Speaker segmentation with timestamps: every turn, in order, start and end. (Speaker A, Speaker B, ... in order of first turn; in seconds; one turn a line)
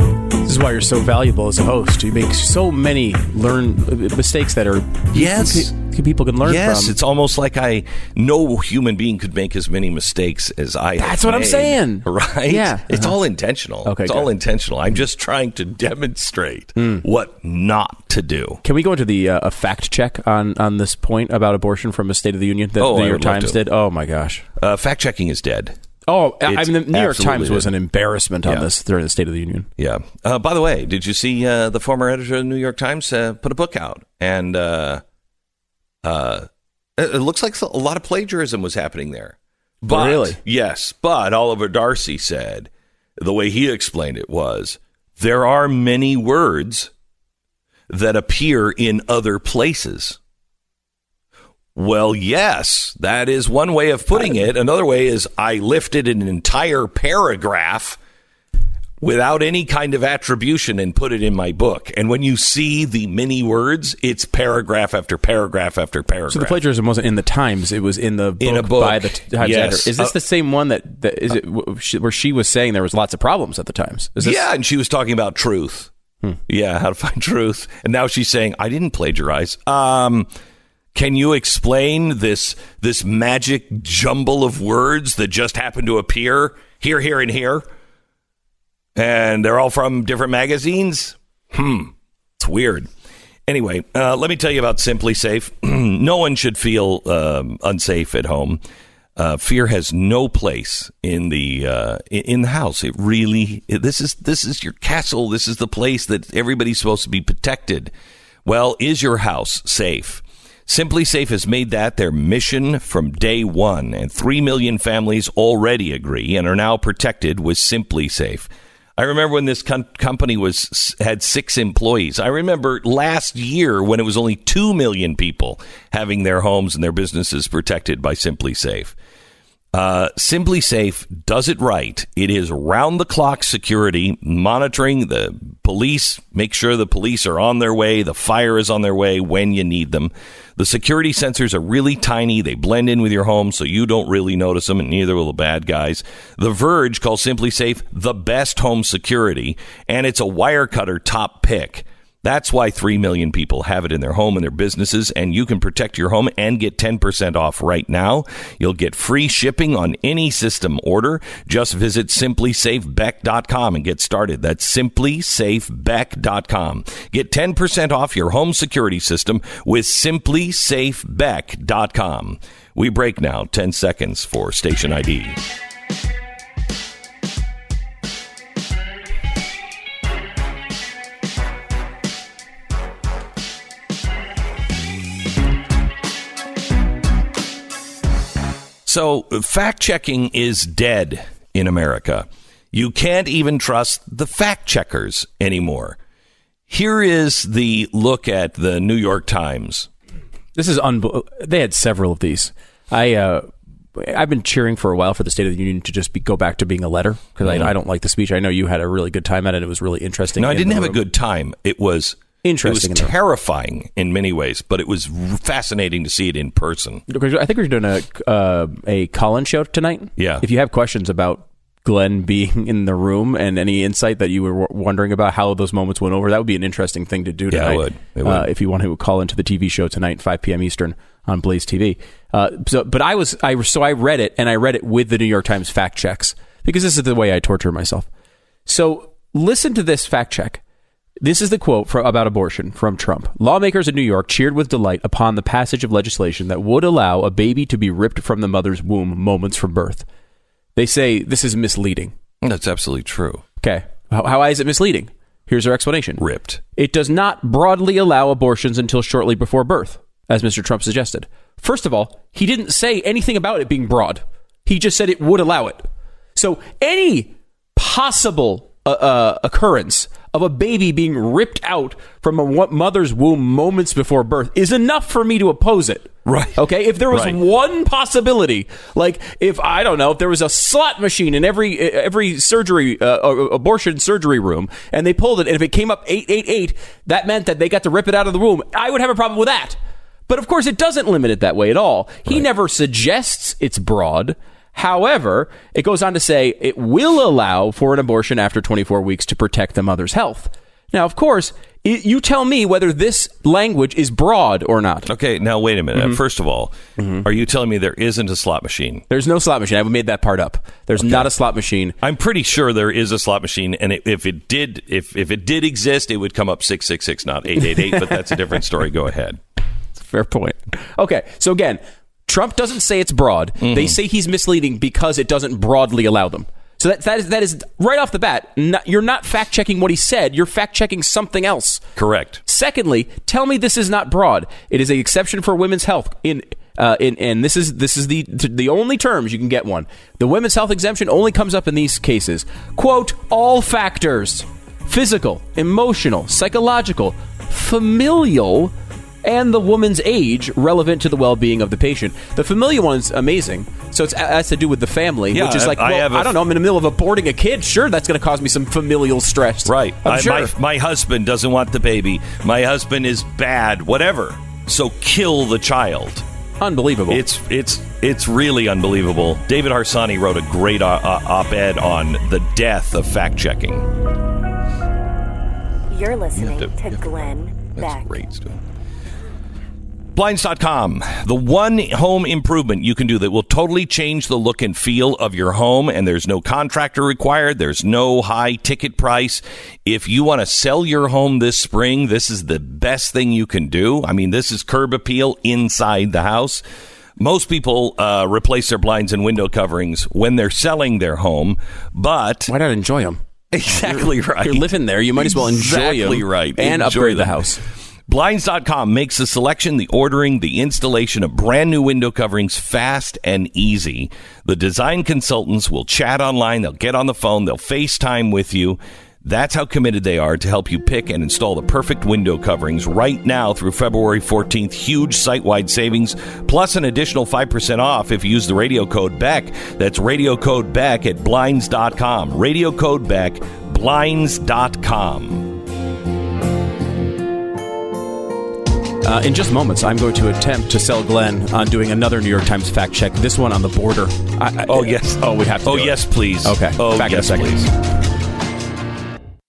Speaker A: 0.4-7.0
Speaker B: 5.1-5.8
Speaker B: 6.4-18.6
Speaker A: 11.0-13.1
Speaker A: 13.8-14.3
Speaker A: 18.6-24.5
Speaker B: 22.8-23.6
Speaker B: 24.6-25.8
Speaker A: 26.1-29.7
Speaker B: 26.4-27.7
Speaker B: 29.8-35.0
Speaker B: 36.0-46.9
Speaker A: 39.9-40.4
Speaker B: 47.9-50.2
Speaker B: 51.8-58.0
Speaker B: 59.0-66.6
Speaker A: 66.3-74.4
Speaker B: 68.4-70.2
Speaker B: 74.2-75.9
Speaker B: 76.5-80.3
Speaker B: 80.9-87.7
Speaker B: 89.0-92.9
Speaker B: 93.5-98.6
Speaker B: 99.2-107.9
Speaker B: 108.5-128.9
Speaker B: 129.7-175.5
Speaker B: 188.9-196.0
Speaker B: 196.7-199.9
Speaker A: 200.6-211.0
Speaker B: 207.4-207.7
Speaker B: 210.4-217.0
Speaker A: 212.4-213.1
Speaker A: 217.1-238.1
Speaker B: 220.2-220.4
Speaker B: 227.5-228.5
Speaker A: 238.7-240.6
Speaker A: 241.2-250.1
Speaker A: 250.8-252.2
Speaker B: 252.4-253.4
Speaker A: 253.6-256.2
Speaker B: 256.2-256.6
Speaker A: 256.8-305.1
Speaker B: 276.3-277.4
Speaker B: 305.1-309.1
Speaker A: 307.0-307.2
Speaker A: 309.1-312.0
Speaker B: 311.0-311.3
Speaker B: 312.0-319.4
Speaker A: 320.0-331.8
Speaker B: 323.6-323.9
Speaker B: 332.0-332.4
Speaker A: 332.5-360.5
Speaker B: 355.3-356.4
Speaker B: 359.6-366.2
Speaker A: 366.6-367.2
Speaker B: 367.1-373.9
Speaker C: 375.9-378.2
Speaker B: 376.4-377.0
Speaker B: 377.8-378.6
Speaker B: 380.1-396.6
Speaker B: 397.2-402.5
Speaker A: 402.5-403.2
Speaker B: 403.5-407.4
Speaker A: 403.9-407.6
Speaker B: 408.1-435.5
Speaker A: 439.0-447.7
Speaker B: 444.7-447.7